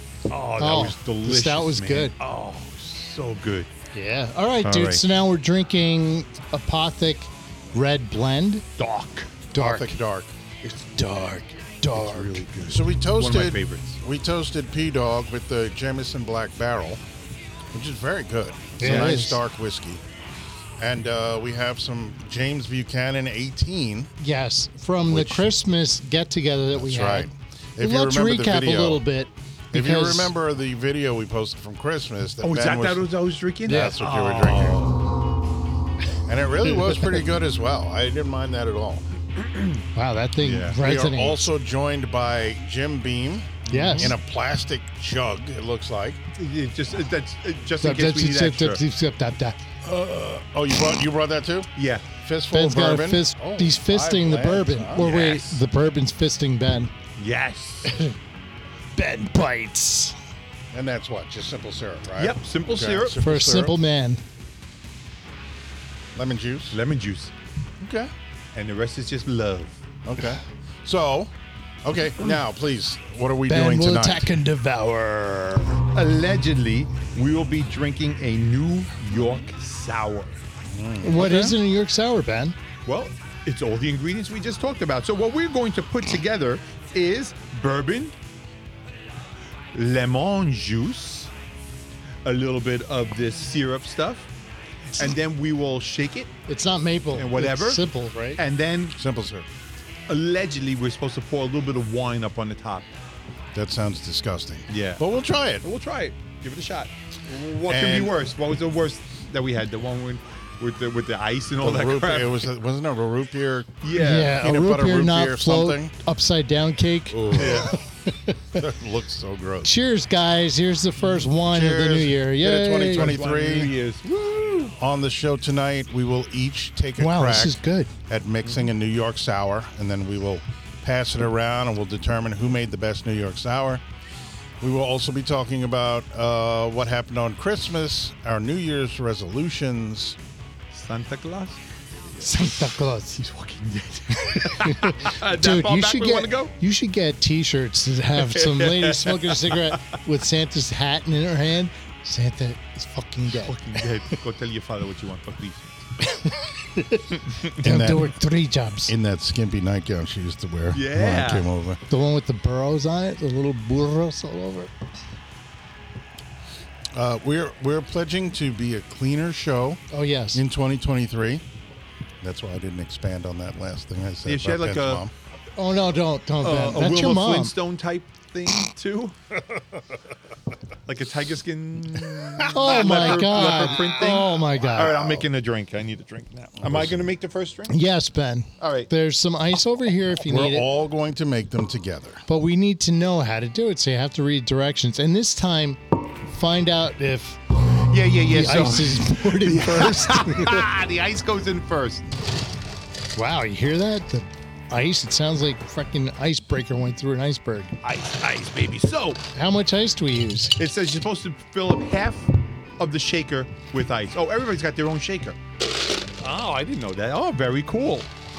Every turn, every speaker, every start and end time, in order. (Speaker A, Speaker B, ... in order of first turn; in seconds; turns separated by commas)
Speaker A: 0.3-3.7, Speaker B: 0.6-2.1, Speaker B: 4.0-8.7, Speaker A: 4.6-5.0, Speaker A: 8.8-9.4, Speaker B: 9.5-9.9, Speaker C: 9.5-10.3, Speaker B: 10.6-12.4, Speaker C: 12.0-17.0, Speaker A: 12.2-14.0, Speaker C: 17.7-20.0, Speaker B: 18.8-19.4, Speaker A: 18.8-19.2, Speaker C: 20.8-24.1, Speaker B: 24.2-30.3, Speaker C: 25.1-25.5, Speaker C: 26.7-29.0, Speaker C: 29.7-33.1, Speaker A: 32.4-35.0, Speaker C: 33.6-34.9, Speaker B: 33.7-34.0, Speaker C: 36.3-39.1, Speaker B: 36.9-37.2, Speaker A: 39.4-39.8, Speaker B: 40.0-41.5, Speaker C: 40.4-46.2, Speaker A: 43.7-44.1, Speaker B: 43.7-44.1, Speaker A: 46.4-48.8, Speaker B: 47.8-49.6, Speaker C: 49.8-55.1, Speaker A: 51.8-52.1, Speaker B: 52.5-56.9, Speaker A: 55.0-55.6, Speaker A: 57.2-57.9, Speaker B: 57.9-58.1, Speaker B: 59.0-60.2, Speaker C: 60.7-63.8, Speaker A: 62.2-63.2, Speaker B: 63.2-64.2, Speaker C: 66.2-66.8, Speaker A: 66.7-67.3, Speaker C: 67.8-68.1, Speaker A: 68.5-69.8, Speaker C: 70.0-71.3, Speaker C: 71.8-74.3, Speaker B: 73.5-75.8, Speaker A: 75.9-80.4, Speaker C: 80.7-81.5, Speaker B: 81.0-82.5, Speaker A: 82.9-88.1, Speaker A: 89.7-91.3, Speaker A: 92.2-94.3, Speaker A: 95.0-96.3, Speaker B: 96.5-98.4, Speaker A: 97.1-99.0, Speaker C: 99.0-99.5, Speaker A: 100.1-102.9, Speaker C: 103.5-105.7, Speaker A: 104.7-105.1, Speaker A: 105.6-112.5, Speaker C: 107.7-108.2, Speaker C: 111.6-115.9, Speaker A: 113.8-114.4, Speaker B: 114.0-118.4, Speaker C: 117.1-117.7, Speaker A: 117.3-117.8, Speaker C: 118.5-119.7, Speaker B: 119.6-123.2, Speaker C: 121.4-123.7, Speaker A: 122.8-124.8, Speaker C: 124.8-133.8, Speaker B: 127.0-127.9, Speaker C: 134.6-140.2, Speaker A: 140.7-141.6, Speaker B: 142.2-143.2, Speaker A: 143.2-146.5, Speaker B: 144.2-153.6, Speaker A: 148.2-149.8, Speaker A: 153.3-155.7, Speaker B: 156.0-158.9, Speaker C: 157.6-158.1, Speaker C: 158.9-161.8, Speaker A: 160.7-161.5, Speaker B: 161.9-164.7, Speaker C: 166.9-169.8, Speaker B: 169.9-170.4, Speaker C: 170.3-171.4, Speaker C: 172.2-175.1, Speaker A: 174.2-175.1, Speaker B: 175.6-177.5, Speaker A: 176.4-179.2, Speaker A: 180.9-187.8, Speaker B: 182.5-185.0, Speaker C: 186.6-187.1, Speaker B: 187.7-190.7, Speaker A: 188.6-188.9, Speaker C: 190.2-192.2, Speaker B: 192.3-197.4, Speaker A: 197.7-202.1, Speaker B: 198.3-200.7, Speaker B: 203.2-207.7, Speaker A: 207.8-209.2, Speaker B: 209.3-210.6, Speaker A: 210.6-215.4, Speaker A: 216.2-218.1